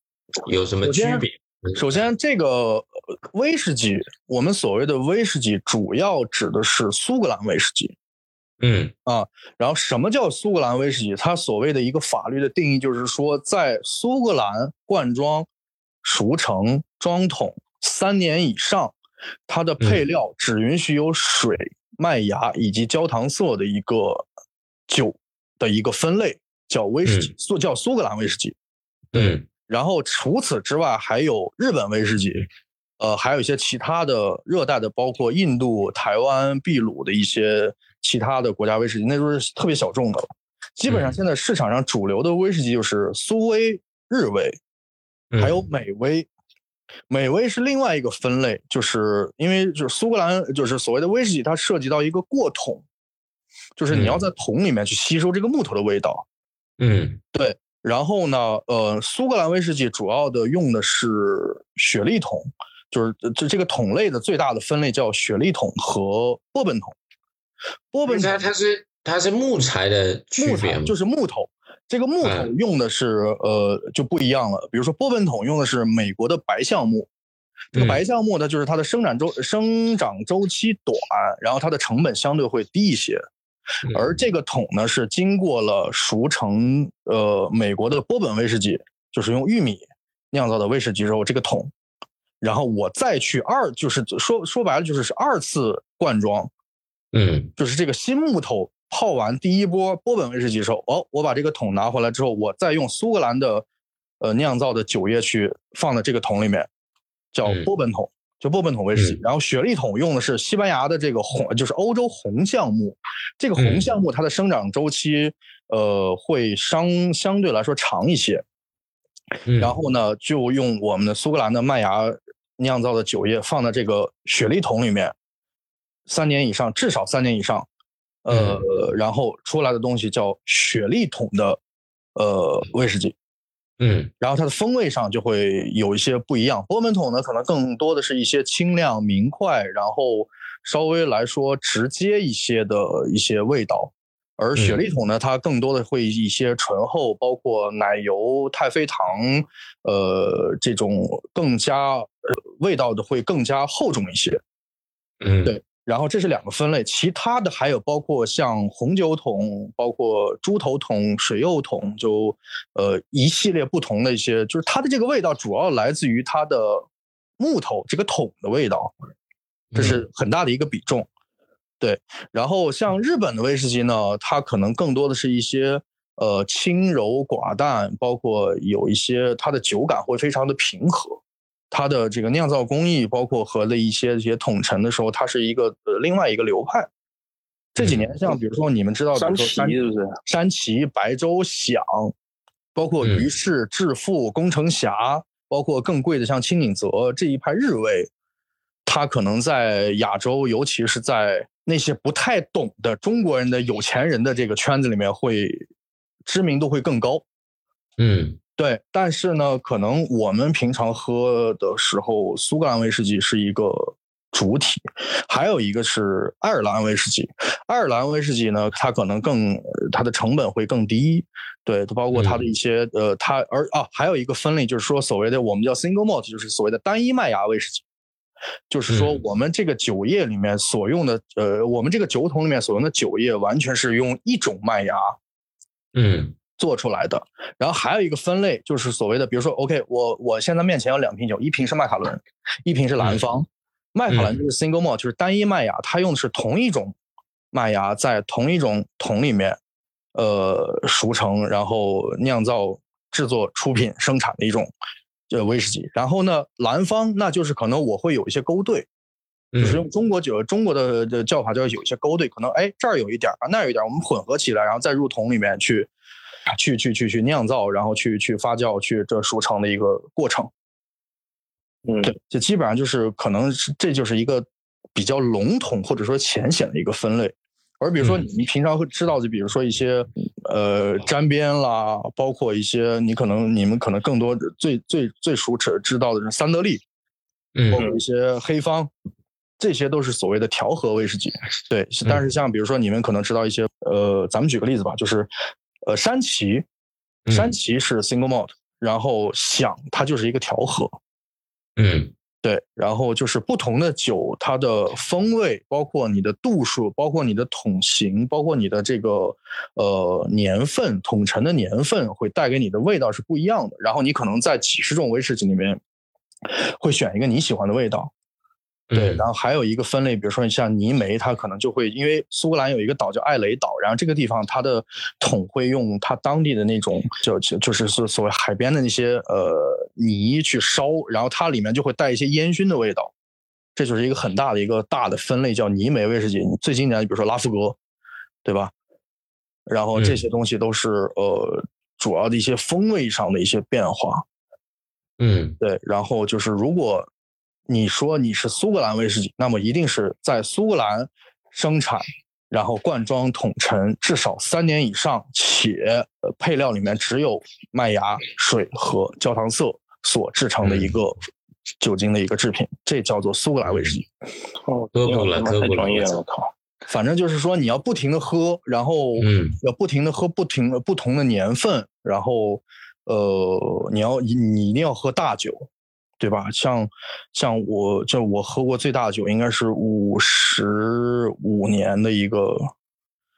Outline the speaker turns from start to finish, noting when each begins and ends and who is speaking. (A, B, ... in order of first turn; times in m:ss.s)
0:00.4-0:02.0 A
0:00.8-0:08.0 B
0:08.6-0:08.9 A
0:09.1-0:15.5 B
0:16.0-0:19.0 B
0:19.5-0:24.3 B
0:24.9-0:28.6 B
0:27.1-0:27.3 A
0:29.1-0:29.4 A
0:29.1-0:44.6 B
0:40.9-0:41.2 A
0:45.3-0:45.6 A
0:45.4-0:46.3 B
0:47.1-0:52.8 B
0:53.8-0:56.2 B
0:53.9-0:54.2 A
0:56.8-0:57.2 A
0:57.4-1:07.0 B
1:07.9-1:08.5 B
1:08.1-1:10.9 A
1:10.4-1:17.1 B
1:12.2-1:12.5 A
1:17.7-1:23.2 B
1:17.8-1:18.0 A
1:23.9-1:24.2 A
1:23.9-1:31.7 B
1:32.4-1:36.5 B
1:37.1-1:37.5 A
1:37.6-1:43.7 B
1:44.2-1:46.7 B
1:47.3-1:58.4 B
1:53.6-1:53.9 A
1:59.5-1:59.8 A
1:59.6-2:05.2 B
2:06.1-2:07.7 B
2:08.2-2:11.6 B
2:08.3-2:08.6 A
2:12.2-2:13.2 B
2:13.8-2:14.1 A
2:14.2-2:34.4 B
2:35.2-2:35.6 A
2:35.4-2:46.9 B
2:47.4-2:49.0 B
2:49.7-2:50.0 A
2:49.8-2:51.1 B
2:51.8-3:01.2 B
3:01.7-3:06.9 B
3:07.8-3:12.1 B
3:07.8-3:08.1 A
3:09.2-3:10.2 C
3:12.8-3:18.1 B
3:13.0-3:13.3 A
3:18.9-3:25.7 B
3:26.3-3:27.2 B
3:28.0-3:28.4 A
3:28.6-3:47.8 B
3:42.1-3:42.4 A
3:48.7-3:55.2 B
3:48.9-3:49.2 A
3:56.0-3:56.4 A
3:56.6-4:07.0 B
4:04.1-4:04.4 A
4:07.5-4:09.6 B
4:10.2-4:14.7 B
4:15.3-4:18.9 B
4:19.5-4:19.9 A
4:19.6-4:25.9 B
4:26.5-4:30.5 B
4:31.8-4:32.1 C
4:32.1-4:46.8 B
4:38.0-4:38.3 A
4:47.6-4:47.8 A
4:47.7-4:48.9 B
4:49.6-4:55.3 B
4:55.9-4:56.7 B
4:57.3-4:57.6 A
4:57.3-5:01.0 B
5:01.8-5:02.1 A
5:02.4-5:15.8 B
5:16.5-5:18.1 B
5:18.9-5:19.2 A
5:18.9-5:33.1 B
5:33.8-5:37.8 B
5:38.4-5:38.7 B
5:39.7-5:44.2 B
5:40.0-5:40.2 A
5:45.2-5:45.6 A
5:45.6-5:47.1 B
5:47.7-6:01.2 B
6:00.6-6:01.0 A
6:01.8-6:04.1 B
6:03.7-6:03.9 A
6:04.7-6:06.5 C
6:05.0-6:06.2 A
6:06.9-6:15.7 B
6:09.2-6:09.6 A
6:16.2-6:22.7 B